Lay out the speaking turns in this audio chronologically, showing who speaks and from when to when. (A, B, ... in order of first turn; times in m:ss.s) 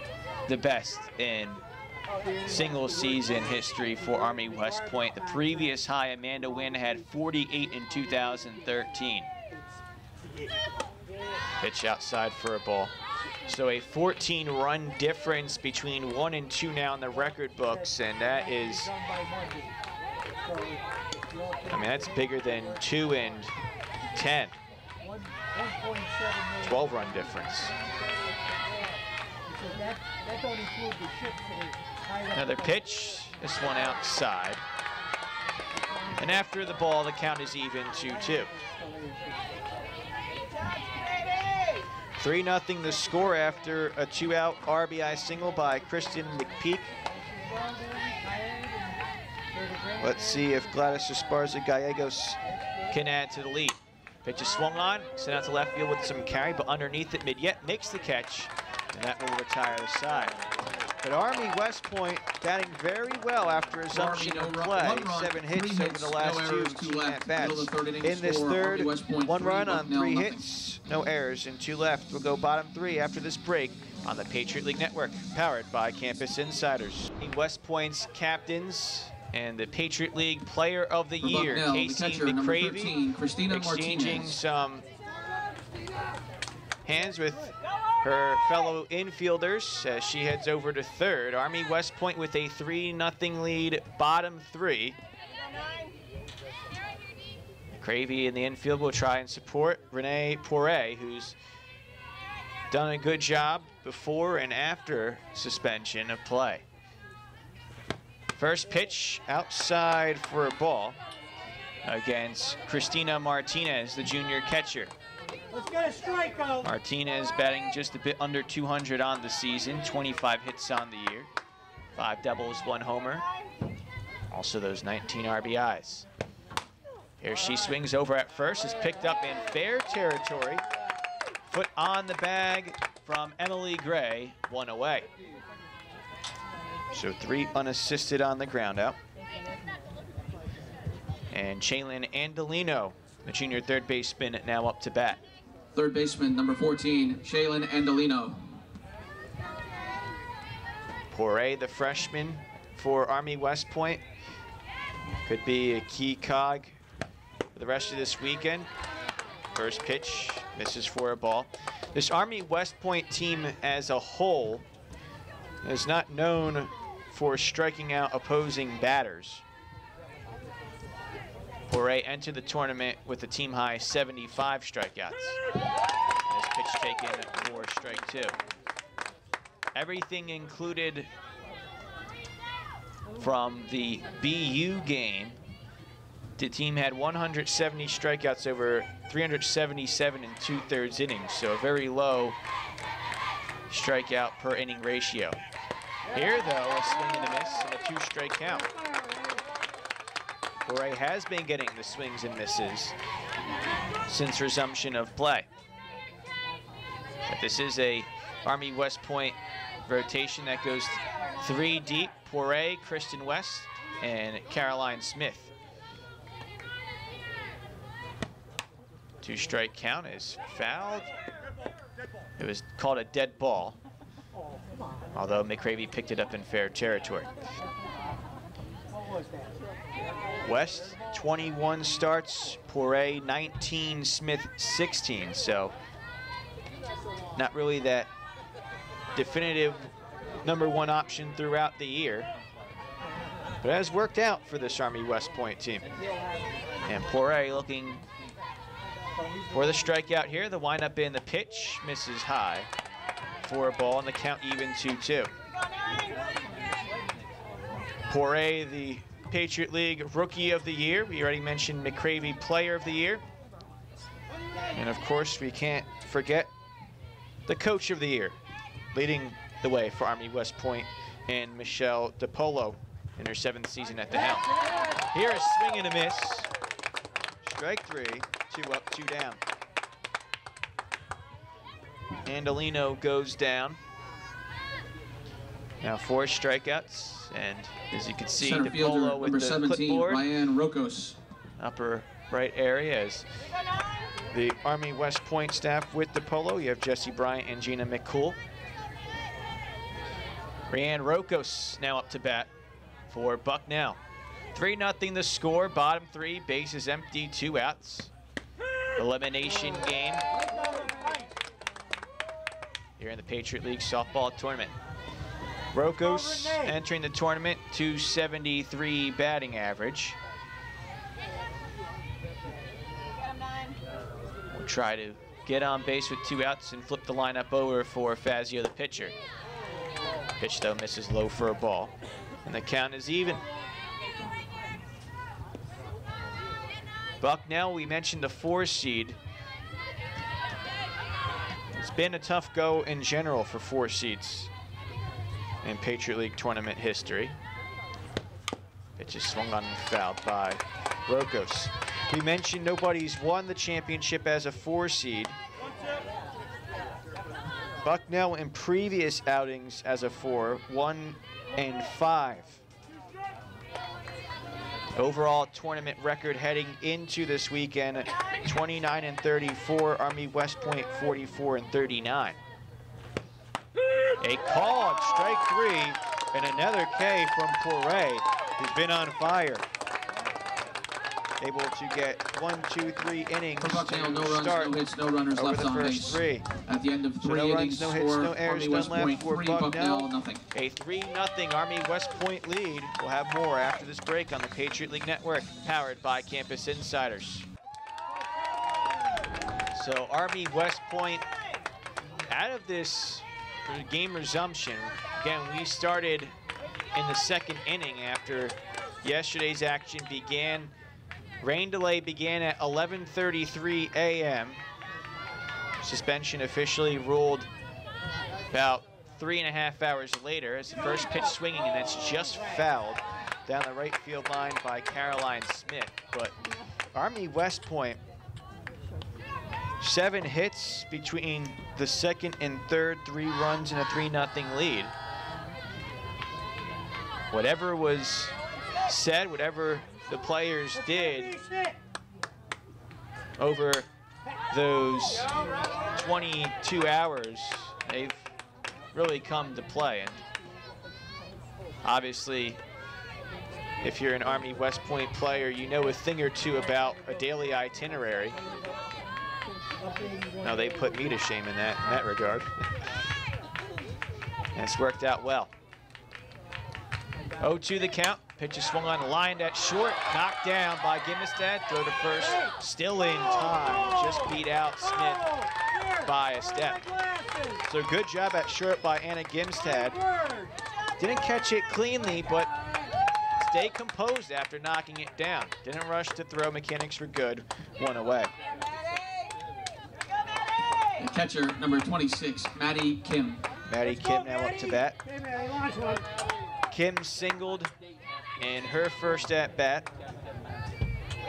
0:00.5-0:01.6 A
0:02.4-0:09.3 A
0:11.6-0:12.9 A
0:13.5-0:18.9 A
0:18.5-0:19.7 B
0:20.5-0:20.8 B
0:21.3-0:21.8 B
0:21.7-0:23.5 A
0:24.1-0:24.6 A
0:25.0-0:26.8 B
0:26.6-0:27.7 A
0:29.5-0:32.6 B
0:32.3-0:34.6 A
0:36.2-0:38.5 A
0:38.6-0:39.2 B
0:42.2-0:47.0 A
0:50.0-0:52.4 A
0:52.9-1:00.4 A
1:01.0-1:23.0 A
1:03.9-1:10.4 C
1:21.2-1:24.4 C
1:23.5-1:24.9 A
1:26.8-1:35.0 A
1:37.8-1:41.4 A
1:42.7-1:46.6 A
1:48.3-1:51.0 A
1:51.8-1:54.9 A
1:55.5-1:56.7 B
1:56.6-2:01.3 A
2:02.0-2:03.2 A
2:04.3-2:06.1 A
2:07.2-2:10.6 A
2:11.5-2:15.1 A
2:16.9-2:19.0 A
2:21.3-2:25.2 A
2:25.7-2:28.5 C
2:31.1-2:34.0 A
2:35.3-2:36.8 A
2:37.6-2:38.7 A
2:39.6-2:44.6 A
2:45.6-2:49.4 A
2:51.7-2:55.4 A
2:56.3-2:58.4 A
2:59.8-3:01.1 A
3:03.2-3:05.4 A
3:06.4-3:12.4 A
3:13.7-3:15.4 A
3:16.1-3:18.7 A
3:20.7-3:23.0 A
3:24.1-3:25.5 A
3:27.3-3:35.5 A
3:39.2-3:41.1 A
3:42.4-3:43.8 A
3:45.1-3:47.3 A
3:50.4-3:55.8 A
3:57.4-3:58.1 A
3:59.1-3:59.9 A
4:00.4-4:02.3 A
4:03.6-4:05.8 A
4:06.9-4:08.0 A
4:09.5-4:12.7 A
4:13.4-4:15.3 A
4:18.1-4:23.2 A
4:24.8-4:26.5 A
4:27.5-4:28.4 A
4:28.9-4:34.5 A
4:35.1-4:36.5 A
4:37.4-4:39.4 A
4:42.3-4:43.8 A
4:45.8-4:50.3 A
4:48.4-4:51.2 C
4:51.6-4:53.3 A
4:54.3-4:58.4 A
5:00.7-5:02.5 A
5:03.1-5:04.0 A
5:04.6-5:08.1 A
5:09.0-5:10.3 A
5:10.6-5:11.2 B
5:13.0-5:14.7 A
5:15.7-5:20.2 A
5:16.0-5:16.8 B
5:24.5-5:29.1 A
5:30.4-5:31.9 A
5:32.4-5:33.4 A
5:37.2-5:39.2 A
5:41.8-5:44.5 A
5:45.6-5:47.4 A
5:49.0-5:55.4 A
5:57.8-6:02.6 A
6:05.0-6:12.4 A
6:14.2-6:19.6 A
6:21.4-6:26.5 A
6:23.6-6:30.4 C
6:27.2-6:37.5 A
6:39.8-6:41.2 A
6:42.3-6:46.3 A
6:47.0-6:50.7 A
6:51.4-6:54.6 A
6:55.8-6:57.5 A
6:58.5-7:06.3 A
7:07.0-7:08.0 A
7:09.8-7:14.9 A
7:17.3-7:18.3 A
7:18.8-7:21.4 A
7:21.4-7:21.7 B
7:23.4-7:23.9 A
7:24.5-7:25.3 A
7:25.9-7:28.3 A
7:28.9-7:30.2 A
7:31.8-7:32.6 A
7:33.8-7:38.4 A
7:39.9-7:40.4 B
7:40.4-7:42.7 A
7:44.6-7:45.5 A
7:47.4-7:55.3 A
7:55.1-7:57.6 B
7:56.0-7:56.9 A
7:57.6-8:00.0 A
7:59.7-8:00.5 B
8:01.0-8:02.5 A
8:03.4-8:08.3 A
8:11.0-8:13.4 C
8:13.7-8:15.0 A
8:14.0-8:16.0 B
8:16.7-8:17.7 A
8:18.4-8:19.9 A